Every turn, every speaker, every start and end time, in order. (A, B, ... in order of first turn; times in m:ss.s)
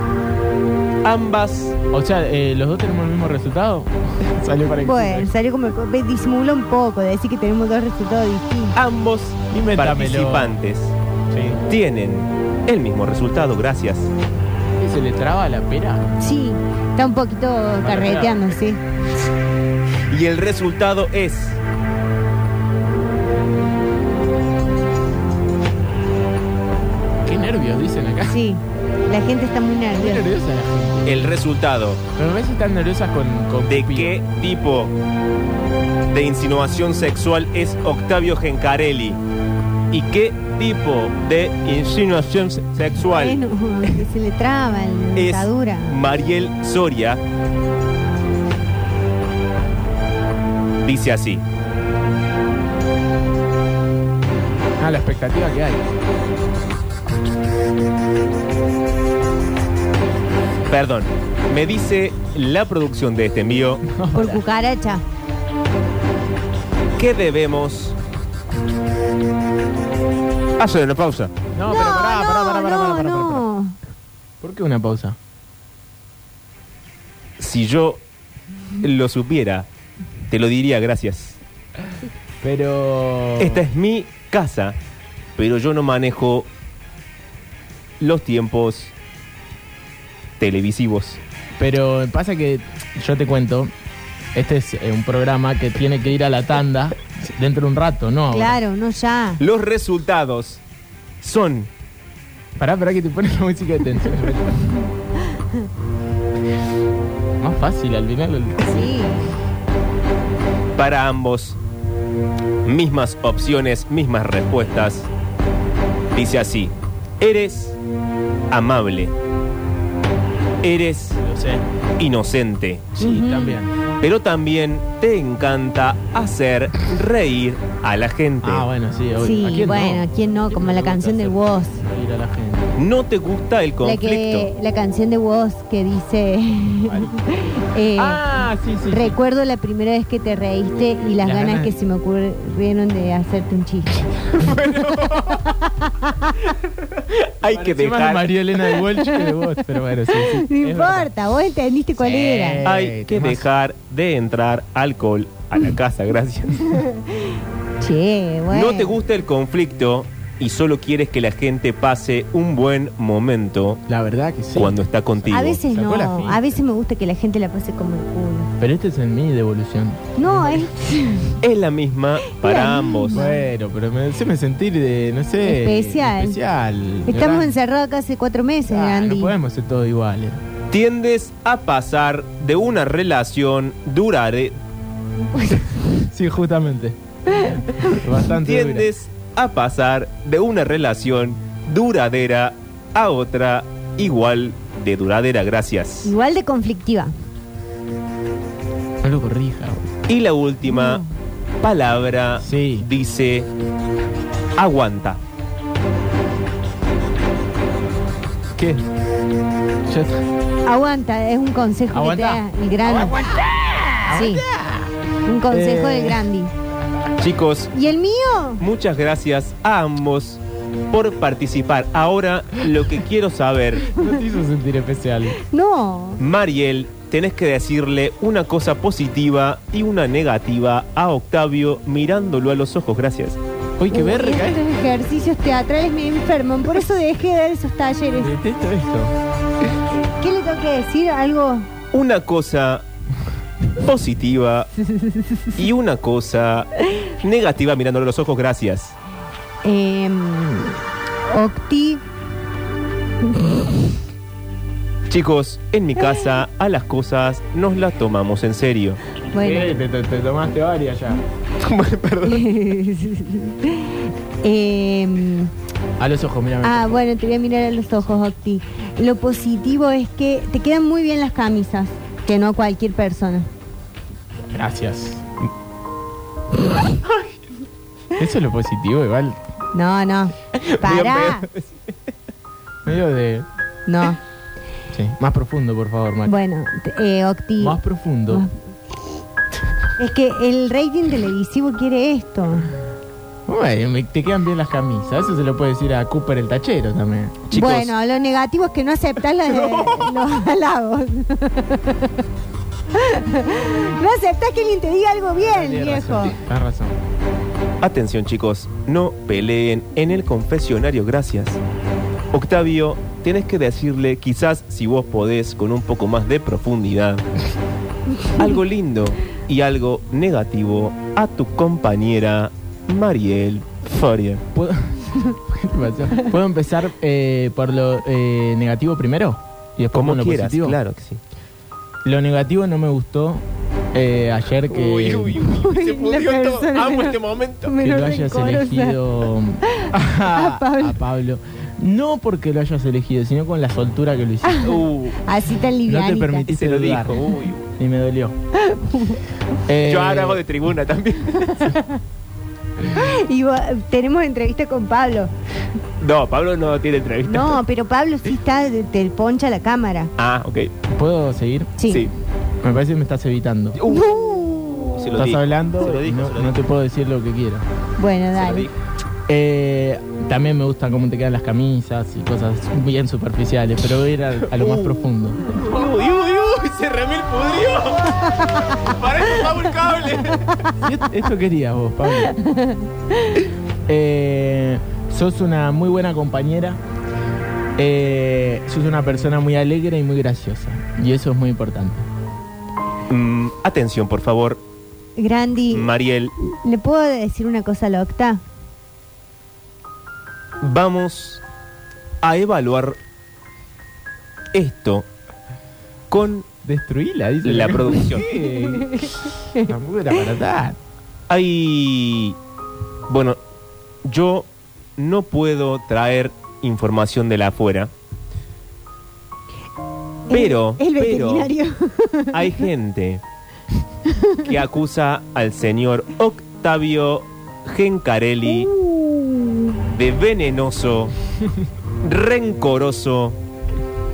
0:01.0-0:01.8 A
0:01.9-0:05.3 B
0:04.8-0:08.8 C
0:08.8-0:11.0 A
0:09.5-0:10.6 B
0:11.3-0:11.6 B
0:11.7-0:14.1 A
0:14.8-0:16.2 B
0:16.2-0:18.8 C
0:17.8-0:18.5 B
0:20.1-0:21.6 A
0:27.2-0:28.4 B
0:28.3-0:30.2 C
0:30.0-0:31.3 B
0:31.0-0:32.0 A
0:32.2-0:34.2 B
0:33.7-0:35.0 A
0:36.1-0:39.2 A
0:39.9-0:43.4 A
0:43.1-0:46.0 C
0:45.2-0:47.2 A
0:50.8-0:51.4 A
0:54.8-0:55.8 B
1:00.7-1:03.8 A
1:03.8-1:04.4 B
1:04.1-1:05.0 C
1:07.0-1:08.0 A
1:10.6-1:11.3 A
1:11.5-1:13.4 B
1:11.7-1:13.8 C
1:14.4-1:15.2 B
1:17.4-1:18.0 A
1:18.8-1:19.7 A
1:20.3-1:21.4 A
1:22.4-1:23.6 B
1:23.4-1:24.8 A
1:25.4-1:26.5 A
1:28.0-1:28.9 A
1:30.4-1:31.2 A
1:31.6-1:33.7 B
1:34.4-1:38.6 B
1:38.3-1:39.4 C
1:39.4-1:40.6 A
1:41.2-1:41.7 A
1:42.6-1:44.8 B
1:45.4-1:45.6 C
1:47.4-1:48.9 B
1:48.6-1:49.4 C
1:50.8-1:51.6 A
1:52.6-1:55.1 A
1:56.1-1:57.8 A
1:58.5-1:59.1 A
2:00.6-2:01.2 A
2:01.2-2:01.6 B
2:02.0-2:02.9 A
2:03.0-2:03.8 B
2:03.0-2:03.6 C
2:04.0-2:08.7 A
2:08.4-2:12.8 B
2:09.2-2:11.8 C
2:12.8-2:14.5 A
2:13.8-2:18.2 C
2:16.9-2:17.2 B
2:18.0-2:19.2 B
2:18.9-2:24.0 C
2:21.2-2:21.8 B
2:24.3-2:25.5 A
2:25.4-2:26.4 C
2:26.6-2:28.4 A
2:27.4-2:31.1 B
2:28.9-2:29.4 C
2:30.1-2:32.6 C
2:32.0-2:33.4 B
2:32.6-2:36.8 A
2:36.6-2:39.0 C
2:38.5-2:43.8 A
2:43.9-2:46.6 B
2:44.6-2:45.6 A
2:45.3-2:48.5 C
2:48.6-2:50.7 B
2:50.2-2:51.4 C
2:51.4-2:53.2 A
2:52.3-2:53.4 C
2:53.1-2:57.5 B
2:55.4-2:56.4 C
2:57.1-2:59.4 C
2:58.7-3:00.4 B
3:00.7-3:04.6 A
3:05.3-3:05.9 C
3:06.0-3:08.9 B
3:07.3-3:08.0 C
3:08.4-3:16.1 A
3:16.0-3:17.1 C
3:19.0-3:19.9 B
3:20.1-3:21.0 A
3:20.7-3:21.1 C
3:21.6-3:23.5 A
3:22.4-3:22.9 B
3:24.6-3:25.2 A
3:28.6-3:28.9 B
3:29.9-3:30.2 B
3:30.7-3:33.2 C
3:31.9-3:35.0 B
3:34.1-3:34.4 C
3:35.2-3:36.5 C
3:35.5-3:36.2 B
3:37.2-3:37.7 A
3:37.7-3:38.6 C
3:38.6-3:43.9 A
3:43.9-3:45.4 B
3:45.4-3:46.2 C
3:46.2-3:53.4 A
3:53.8-3:54.6 B
3:53.9-3:58.3 C
3:58.2-3:59.1 B
4:00.2-4:01.7 C
4:01.9-4:02.8 A
4:03.8-4:04.7 A
4:04.8-4:05.6 C
4:05.6-4:09.0 A
4:09.6-4:12.0 C
4:13.3-4:13.8 C
4:15.1-4:19.0 A
4:19.3-4:19.7 C
4:19.4-4:21.2 B
4:21.6-4:22.5 A
4:22.2-4:25.5 C
4:26.0-4:27.0 B
4:26.6-4:33.5 C
4:34.5-4:35.5 B
4:38.2-4:39.4 B
4:39.7-4:41.5 C
4:40.6-4:41.9 A
4:42.9-4:43.5 B
4:43.9-4:44.2 C
4:44.9-4:46.3 B
4:46.3-4:48.5 C
4:47.6-4:48.4 B
4:50.0-4:52.7 C
4:53.5-4:57.4 B
4:57.5-4:57.9 A
4:57.5-5:02.2 C
4:59.4-5:00.2 A
5:02.9-5:06.4 C
5:05.5-5:07.0 B
5:07.8-5:11.6 A
5:12.3-5:17.3 A
5:18.4-5:24.4 A
5:24.6-5:30.8 B
5:29.8-5:31.2 A
5:32.0-5:35.4 B
5:34.7-5:37.8 A
5:35.4-5:39.0 C
5:37.8-5:44.6 B
5:39.7-5:41.0 C
5:44.4-5:46.5 C
5:44.6-5:45.2 A
5:45.9-5:47.2 B
5:46.5-5:47.6 A
5:47.8-5:48.4 B
5:48.6-5:49.2 C
5:49.7-5:50.4 B
5:49.8-5:51.8 A
5:52.9-5:55.3 C
5:56.0-5:57.6 A
5:57.3-6:00.1 C
6:00.2-6:00.7 A
6:00.9-6:01.8 B
6:01.8-6:02.1 C
6:01.9-6:02.1 A
6:02.6-6:03.8 B
6:03.8-6:06.6 A
6:03.9-6:05.0 C
6:05.2-6:07.7 B
6:08.0-6:08.7 C
6:08.3-6:08.7 A
6:09.3-6:15.5 B
6:14.5-6:20.7 A
6:18.2-6:18.9 C
6:20.8-6:22.4 B
6:22.2-6:23.4 C
6:23.9-6:26.8 B
6:27.8-6:32.1 B
6:33.1-6:34.6 A
6:35.2-6:38.4 C
6:35.7-6:36.3 A
6:40.6-6:41.4 A
6:42.2-6:43.0 A
6:44.5-6:45.1 A
6:46.1-6:46.5 A
6:46.6-6:50.8 B
6:47.4-6:48.3 A
6:48.8-6:49.7 C
6:51.3-6:52.4 A
6:53.1-6:53.4 A
6:54.0-6:57.9 A
7:00.3-7:02.6 C
7:00.3-7:01.5 A
7:02.3-7:03.2 A
7:04.1-7:04.5 C
7:04.4-7:08.7 A
7:08.5-7:09.8 C
7:09.9-7:11.1 A
7:12.0-7:13.4 A